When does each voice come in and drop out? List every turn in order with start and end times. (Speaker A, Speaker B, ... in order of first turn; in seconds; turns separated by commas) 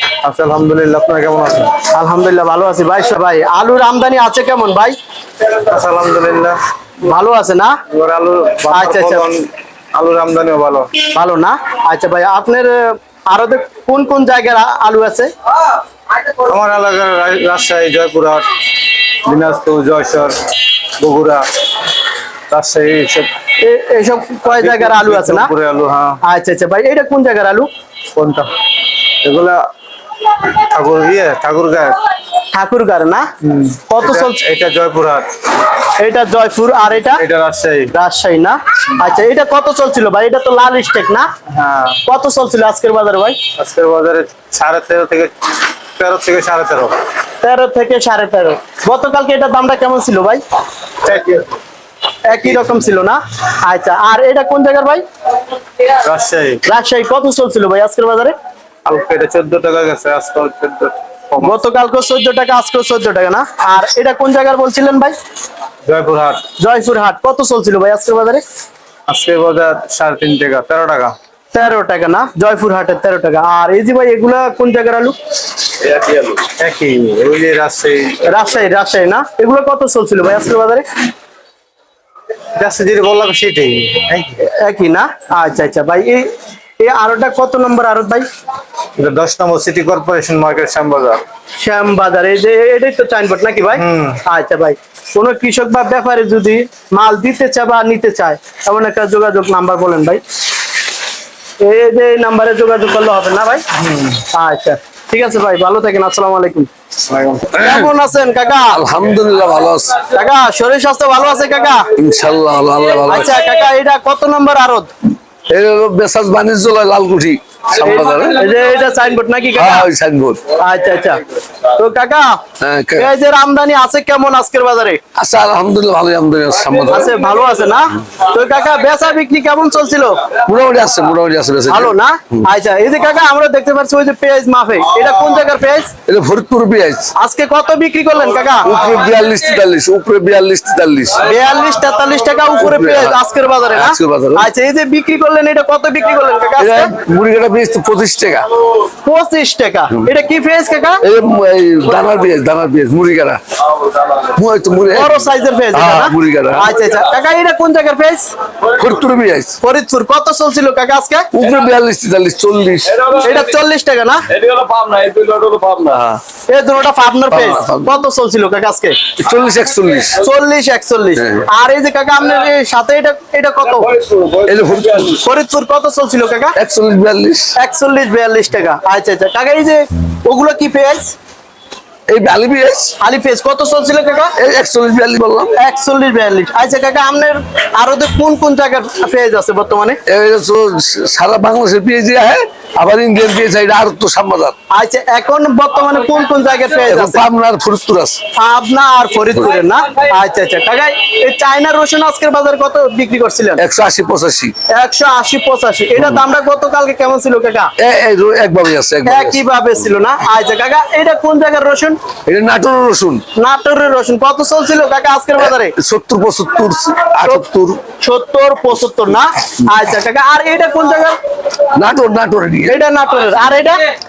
Speaker A: 0.2-1.8, Speaker B: 1.8-5.0, Speaker A: 5.6-6.6, Speaker B: 7.0-7.8, Speaker A: 7.9-10.9, Speaker B: 8.7-9.3, Speaker B: 11.0-15.3, Speaker A: 16.4-18.4, Speaker A: 19.2-20.4, Speaker A: 21.0-21.4, Speaker A: 22.5-23.3, Speaker B: 23.6-25.5, Speaker A: 24.5-26.2, Speaker B: 26.2-27.7, Speaker A: 28.1-28.5, Speaker A: 29.2-29.6, Speaker A: 30.5-32.0, Speaker B: 32.5-33.3, Speaker A: 33.5-35.3, Speaker B: 33.9-34.4, Speaker B: 36.0-37.2, Speaker A: 37.1-37.9, Speaker B: 37.9-41.3, Speaker A: 41.5-42.0, Speaker B: 42.0-43.4, Speaker A: 43.5-45.3, Speaker A: 46.0-47.0, Speaker B: 47.4-50.4, Speaker A: 51.0-51.6, Speaker B: 52.2-55.0, Speaker A: 56.0-56.6, Speaker B: 56.6-58.3, Speaker A: 58.9-61.5, Speaker B: 61.4-65.2, Speaker A: 65.8-66.4, Speaker B: 66.6-68.4, Speaker A: 69.1-71.2, Speaker B: 71.5-75.2, Speaker A: 75.9-78.2, Speaker B: 78.2-80.8, Speaker A: 82.5-84.4, Speaker B: 84.4-88.2, Speaker A: 89.0-91.2, Speaker B: 91.6-100.2, Speaker A: 93.7-94.2, Speaker B: 101.6-103.6, Speaker B: 104.3-106.7, Speaker A: 107.1-107.5, Speaker B: 107.5-108.8, Speaker C: 108.7-110.0, Speaker B: 110.1-111.8, Speaker C: 112.0-113.3, Speaker B: 113.0-114.9, Speaker C: 115.5-118.3, Speaker B: 117.8-119.9, Speaker C: 119.5-120.4, Speaker B: 120.5-122.4, Speaker C: 122.6-123.1, Speaker B: 123.0-125.0, Speaker C: 125.1-127.1, Speaker B: 126.9-130.2, Speaker C: 130.4-131.9, Speaker B: 131.7-135.9, Speaker C: 136.1-137.1, Speaker B: 137.2-138.7, Speaker C: 138.6-141.4, Speaker B: 141.2-146.9, Speaker C: 142.6-143.2, Speaker C: 143.7-144.4, Speaker C: 146.6-148.5, Speaker B: 149.0-151.0, Speaker C: 151.0-153.4, Speaker C: 153.9-155.2, Speaker B: 154.9-158.3, Speaker C: 155.7-156.7, Speaker C: 158.7-159.6, Speaker B: 159.6-161.3, Speaker C: 161.3-163.4, Speaker B: 163.1-164.3, Speaker C: 164.3-166.2, Speaker B: 166.5-169.0, Speaker C: 167.3-167.9, Speaker C: 169.2-170.2, Speaker B: 170.2-173.9, Speaker C: 171.2-171.4, Speaker C: 174.0-175.2, Speaker B: 175.2-176.6, Speaker C: 176.6-177.5, Speaker B: 177.6-181.1, Speaker C: 182.1-182.9, Speaker B: 183.0-184.3, Speaker C: 184.4-185.5, Speaker B: 185.5-190.0, Speaker C: 190.1-194.5, Speaker B: 194.7-197.2, Speaker C: 196.8-198.2, Speaker B: 198.3-203.6, Speaker C: 203.6-204.5, Speaker B: 204.7-207.7, Speaker C: 207.8-209.4, Speaker B: 209.1-212.0, Speaker C: 212.2-213.2, Speaker B: 213.3-215.7, Speaker C: 215.4-217.8, Speaker B: 218.0-221.2, Speaker C: 221.7-222.8, Speaker B: 222.7-223.8